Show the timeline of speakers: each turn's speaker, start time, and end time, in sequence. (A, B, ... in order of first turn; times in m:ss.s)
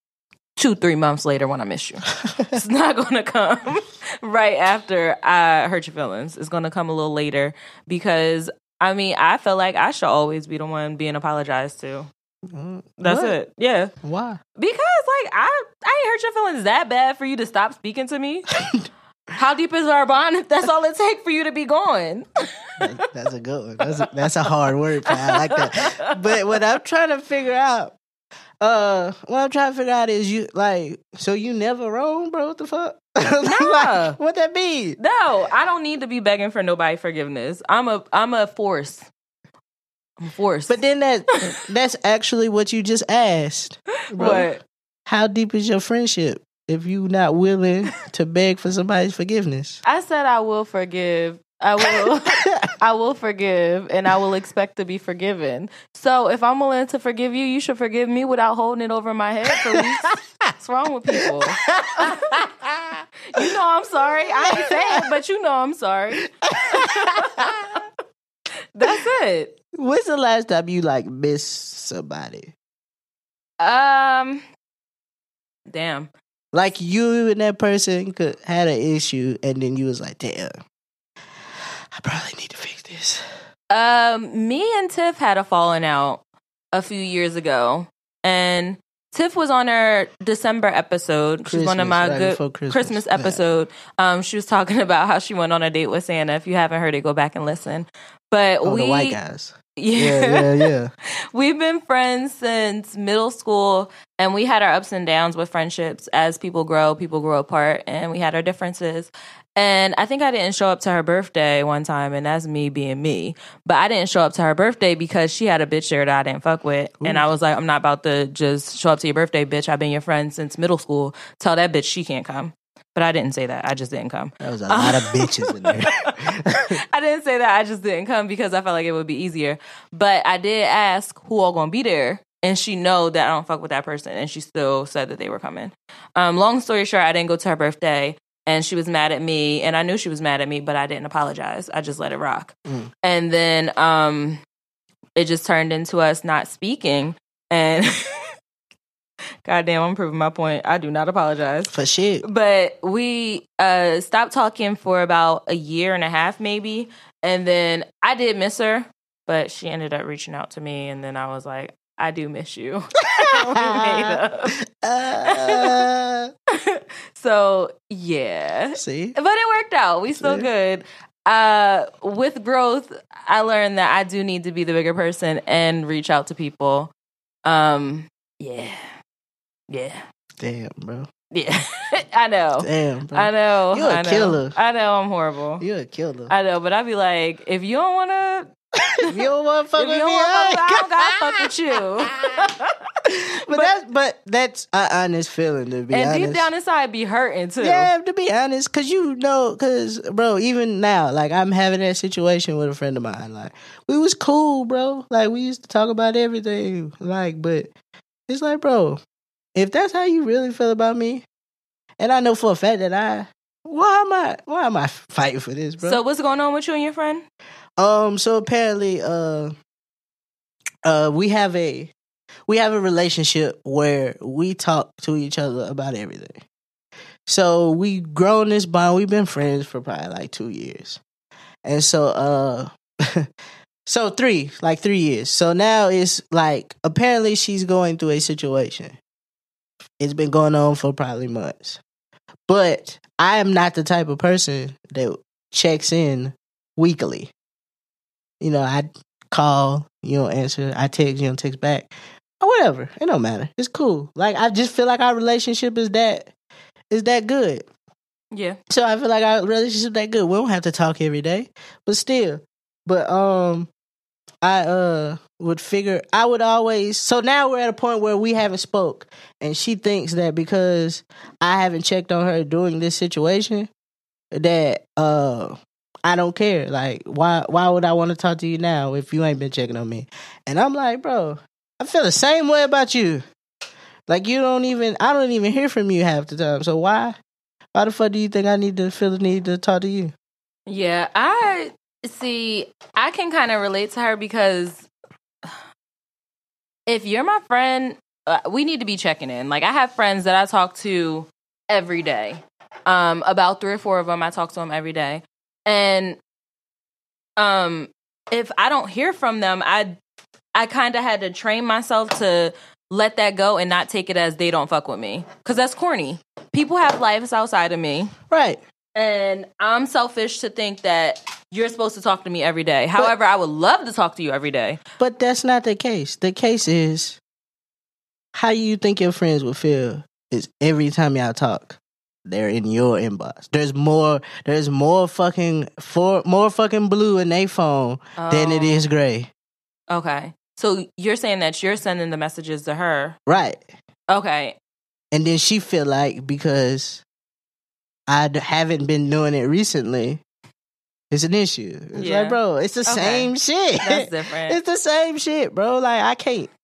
0:00.6-0:12.1 A
0:12.5-0:13.4 B
0:13.0-0:13.9 A
0:14.0-0:14.4 B
0:14.6-0:18.5 A
0:19.3-0:22.8 A
0:22.8-0:28.0 B
0:25.1-0:26.1 A
0:28.6-0:35.0 B
0:33.4-0:34.1 A
0:35.0-0:39.1 A
0:40.2-0:40.8 A
0:40.7-0:44.5 B
0:44.1-0:44.6 A
0:45.1-0:49.8 B
0:49.8-1:02.4 A
0:59.5-0:59.8 B
1:01.2-1:03.5 B
1:03.3-1:07.5 A
1:04.4-1:05.0 B
1:06.4-1:07.7 B
1:08.8-1:09.5 A
1:09.7-1:12.5 B
1:13.6-1:14.4 A
1:15.7-1:16.1 A
1:16.5-1:20.6 B
1:22.0-1:23.2 B
1:23.7-1:26.2 A
1:26.7-1:39.2 A
1:31.4-1:33.4 B
1:38.6-1:40.9 B
1:39.8-1:40.7 A
1:41.3-2:06.1 A
1:57.0-1:57.3 B
2:04.4-2:06.8 B
2:06.9-2:22.5 A
2:22.6-2:22.9 B
2:23.0-2:24.4 A
2:25.2-2:28.3 A
2:29.4-2:44.6 A
2:31.7-2:32.2 B
2:43.2-2:46.3 B
2:45.2-2:45.8 A
2:46.5-2:56.9 A
2:48.8-2:49.2 B
2:50.2-2:50.5 B
2:57.4-2:58.9 A
2:59.7-3:00.0 A
3:00.4-3:01.1 B
3:01.3-3:05.6 A
3:02.6-3:04.6 B
3:05.6-3:06.3 B
3:06.3-3:08.5 A
3:09.1-3:11.5 B
3:09.8-3:12.7 A
3:13.4-3:16.5 B
3:15.9-3:17.9 A
3:17.6-3:27.7 B
3:28.3-3:29.0 B
3:29.6-3:31.2 B
3:32.0-3:36.0 B
3:35.8-3:37.2 A
3:37.8-3:39.5 B
3:40.8-3:41.9 B
3:42.5-3:46.4 B
3:47.3-3:51.0 B
3:51.6-3:53.3 B
3:53.9-3:59.0 B
4:00.0-4:01.8 B
4:02.5-4:07.3 B
4:08.4-4:16.3 B
4:16.9-4:17.6 B
4:18.3-4:18.6 A
4:18.7-4:23.7 B
4:24.4-4:33.7 B
4:34.3-4:43.2 B
4:44.1-4:47.2 B
4:47.7-4:50.1 B
4:50.7-4:54.9 A
4:56.9-5:06.2 A
5:07.4-5:10.0 A
5:10.6-5:18.1 A
5:18.3-5:18.6 B
5:19.0-5:24.8 A
5:25.0-5:27.2 B
5:28.3-5:39.3 B
5:38.2-5:38.9 A
5:39.9-5:43.2 A
5:43.3-5:43.6 B
5:44.1-5:44.6 A
5:45.1-5:47.0 B
5:48.1-5:50.2 B
5:51.1-5:56.5 B
5:52.0-5:54.6 A